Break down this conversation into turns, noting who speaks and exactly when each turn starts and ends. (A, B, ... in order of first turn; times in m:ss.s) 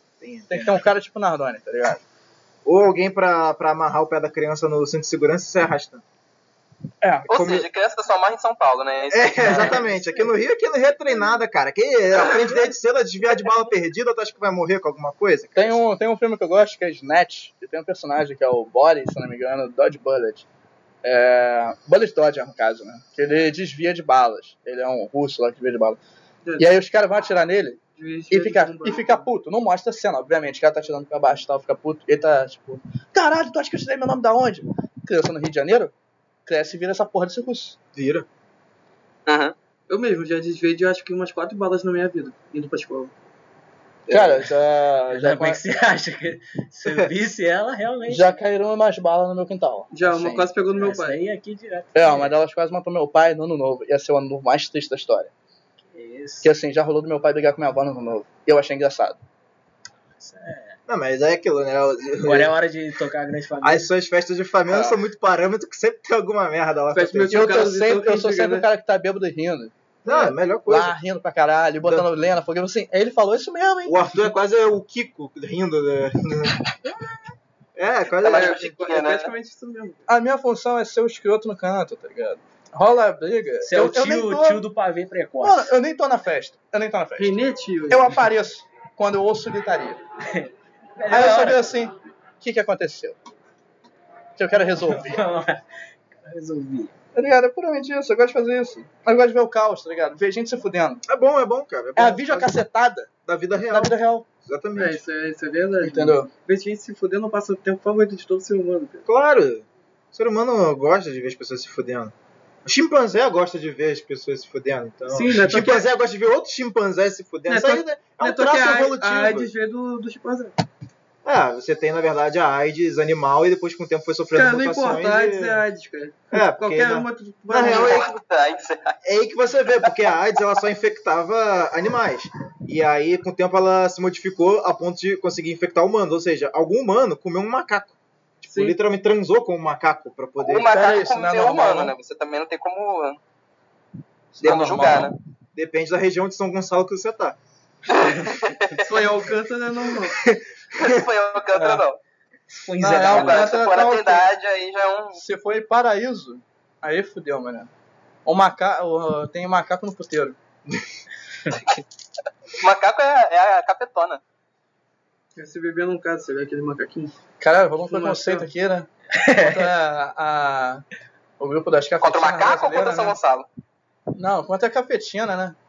0:00.2-0:00.8 A
0:00.5-0:02.0 B
0:02.6-0:06.0 A
0:07.0-0:07.5 B
0:07.3-0:09.8 C
0:07.3-0:07.7 A
0:09.1-0:15.8 A
0:15.6-0:20.5 B
0:21.0-0:26.0 B
0:26.6-0:35.9 B
0:28.0-0:29.3 D
0:36.5-0:37.8 B
0:38.0-0:38.3 A
0:39.3-0:39.6 C
0:39.9-0:43.1 D
0:44.1-0:44.5 A
0:44.1-0:45.6 B
0:45.1-0:48.4 E
0:46.8-0:47.1 A
0:48.1-0:50.4 B
0:49.9-0:51.2 D
0:50.1-0:52.4 E
0:52.0-0:55.3 B
0:55.9-0:56.5 E
0:56.4-0:59.2 B
1:00.2-1:00.8 E
1:00.9-1:02.6 A
1:02.2-1:03.9 E
1:03.6-1:07.5 A
1:04.7-1:05.0 E
1:06.9-1:08.7 D
1:07.3-1:14.3 B
1:10.0-1:11.0 A
1:13.8-1:16.6 A
1:17.8-1:18.7 A
1:18.2-1:19.3 C
1:18.3-1:20.1 D
1:20.1-1:24.6 B
1:23.6-1:25.7 E
1:25.4-1:30.0 B
1:27.2-1:28.2 D
1:30.3-1:31.8 E
1:31.1-1:33.2 B
1:34.4-1:35.2 B
1:34.6-1:35.6 E
1:36.2-1:37.0 E
1:37.2-1:41.0 B
1:41.1-1:42.6 A
1:42.0-1:43.1 B
1:43.2-1:45.0 A
1:43.7-1:44.2 B
1:44.8-1:49.1 D
1:45.8-1:46.3 B
1:49.1-1:52.1 A
1:52.6-1:59.5 A
1:55.1-1:55.9 D
1:57.5-2:00.6 D
2:01.2-2:05.6 A
2:04.3-2:08.1 D
2:06.3-2:08.2 A
2:07.6-2:09.0 C
2:09.0-2:20.7 A
2:18.5-2:18.8 D
2:20.4-2:23.2 C
2:20.7-2:21.9 B
2:24.4-2:25.1 B
2:24.4-2:25.0 A
2:24.4-2:25.2 C
2:25.6-2:27.4 A
2:27.9-2:28.9 C
2:28.0-2:28.8 E
2:28.8-2:30.2 D
2:30.2-2:31.0 A
2:30.7-2:32.0 C
2:31.6-2:31.8 E
2:32.5-2:33.6 E
2:32.8-2:34.3 B
2:33.0-2:35.2 C
2:35.2-2:37.7 B
2:38.2-2:40.4 B
2:42.6-2:44.2 C
2:45.4-2:47.2 D
2:47.4-2:48.9 B
2:47.8-2:48.5 D
2:49.1-2:49.7 E
2:49.4-2:50.8 B
2:51.4-2:53.2 B
2:52.0-2:53.5 C
2:54.2-2:55.6 B